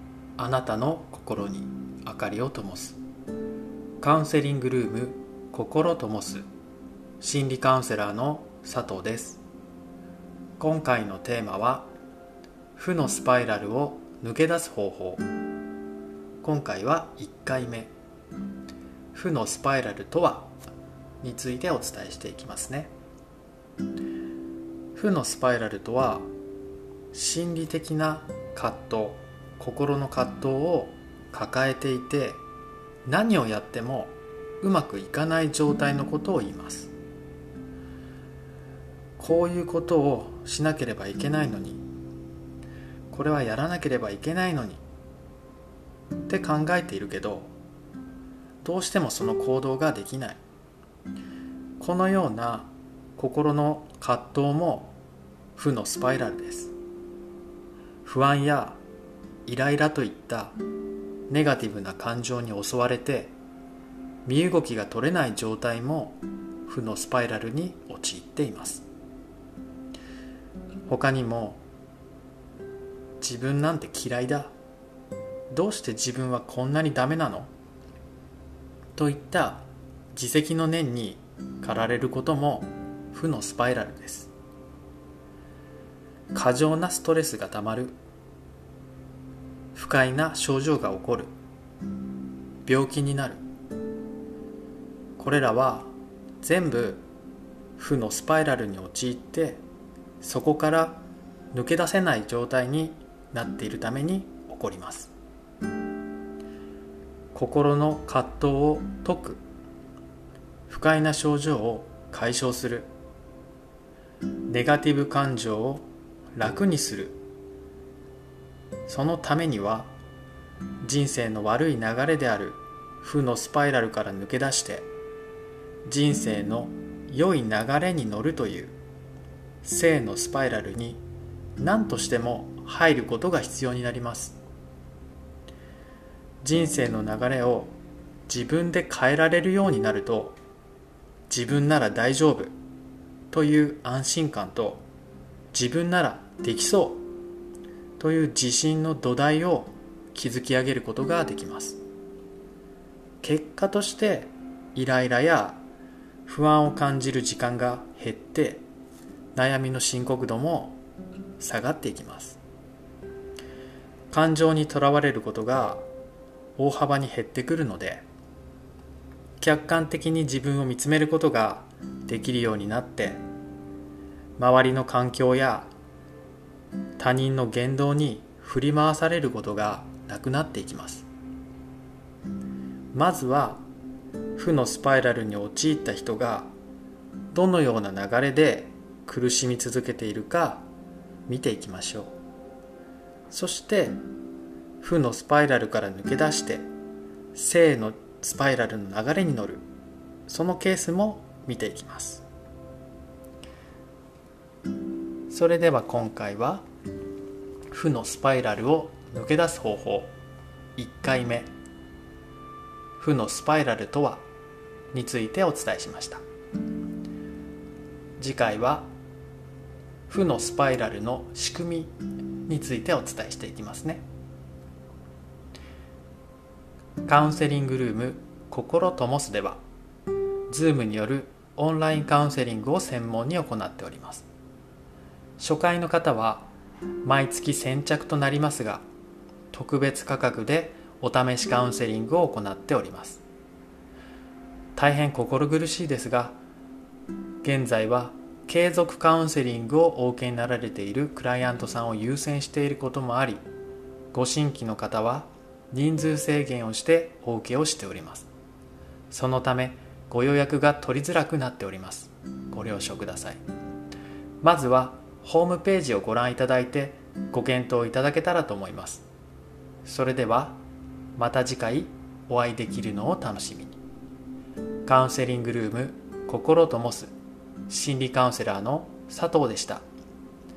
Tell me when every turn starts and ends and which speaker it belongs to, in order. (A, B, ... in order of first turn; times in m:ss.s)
0:00.4-0:03.0 A
0:04.0-0:06.4 A
0:07.2-0:09.4 A
0:10.6-0:11.9 A
0:12.7-0:15.2 A
0:16.4-0:17.9 A
0:19.1-0:20.5 A
0:21.2-0:22.9 A
0:24.9-0:26.3 A
0:27.1-0:32.4 A
0:33.0-0:36.9 A
0:39.2-0:41.8 A
0:43.1-0:44.8 A
0:46.3-0:47.5 A
0:48.6-0:50.4 A
0:51.8-0:54.9 A
0:55.6-0:56.7 A
0:58.0-0:58.8 A
0:59.4-1:00.6 A
1:01.3-1:03.3 A
1:04.2-1:08.8 A
1:10.9-1:11.6 A
1:13.2-1:14.5 A
1:15.5-1:17.5 A
1:19.0-1:24.3 A
1:26.3-1:28.0 A
1:29.7-1:31.3 A
1:32.6-1:33.4 A
1:35.2-1:35.9 A
1:36.4-1:37.0 A
1:37.8-1:39.6 A
1:40.2-1:41.0 A
1:41.5-1:45.1 A
1:47.3-1:49.4 A
1:50.7-1:52.9 A
1:54.5-1:55.8 A
1:56.4-1:57.2 A
1:58.8-1:59.9 A
2:00.8-2:04.8 A
2:05.8-2:08.7 A
2:09.6-2:11.0 A
2:11.6-2:14.4 A
2:16.4-2:17.8 A
2:18.3-2:20.4 A
2:21.3-2:22.5 A
2:23.3-2:24.8 A
2:25.5-2:27.0 A
2:28.0-2:31.8 A
2:33.2-2:35.6 A
2:36.2-2:38.6 A
2:39.3-2:40.8 A
2:41.4-2:42.4 A
2:44.1-2:45.8 A
2:46.6-2:48.0 A
2:49.4-2:53.2 A
2:54.4-2:55.7 A
2:57.0-3:01.1 A
3:02.9-3:03.6 A
3:04.4-3:06.5 A
3:07.3-3:10.6 A
3:11.3-3:12.1 A
3:13.3-3:14.0 A
3:14.8-3:16.6 A
3:17.3-3:19.6 A
3:20.3-3:22.2 A
3:25.3-3:26.6 A
3:27.7-3:30.1 A
3:30.8-3:31.5 A
3:33.0-3:34.2 A
3:34.9-3:36.2 A
3:38.2-3:38.9 A
3:40.1-3:41.9 A
3:42.4-3:44.0 A
3:47.0-3:49.6 A
3:50.5-3:54.2 A
3:55.4-3:56.5 A
3:57.0-3:58.8 A
3:59.5-4:03.2 A
4:04.8-4:06.4 A
4:07.4-4:13.4 A
4:14.1-4:18.3 A
4:19.1-4:23.4 A
4:24.4-4:29.0 A
4:29.8-4:30.6 A
4:31.2-4:33.8 A
4:34.8-4:37.1 A
4:37.7-4:39.8 A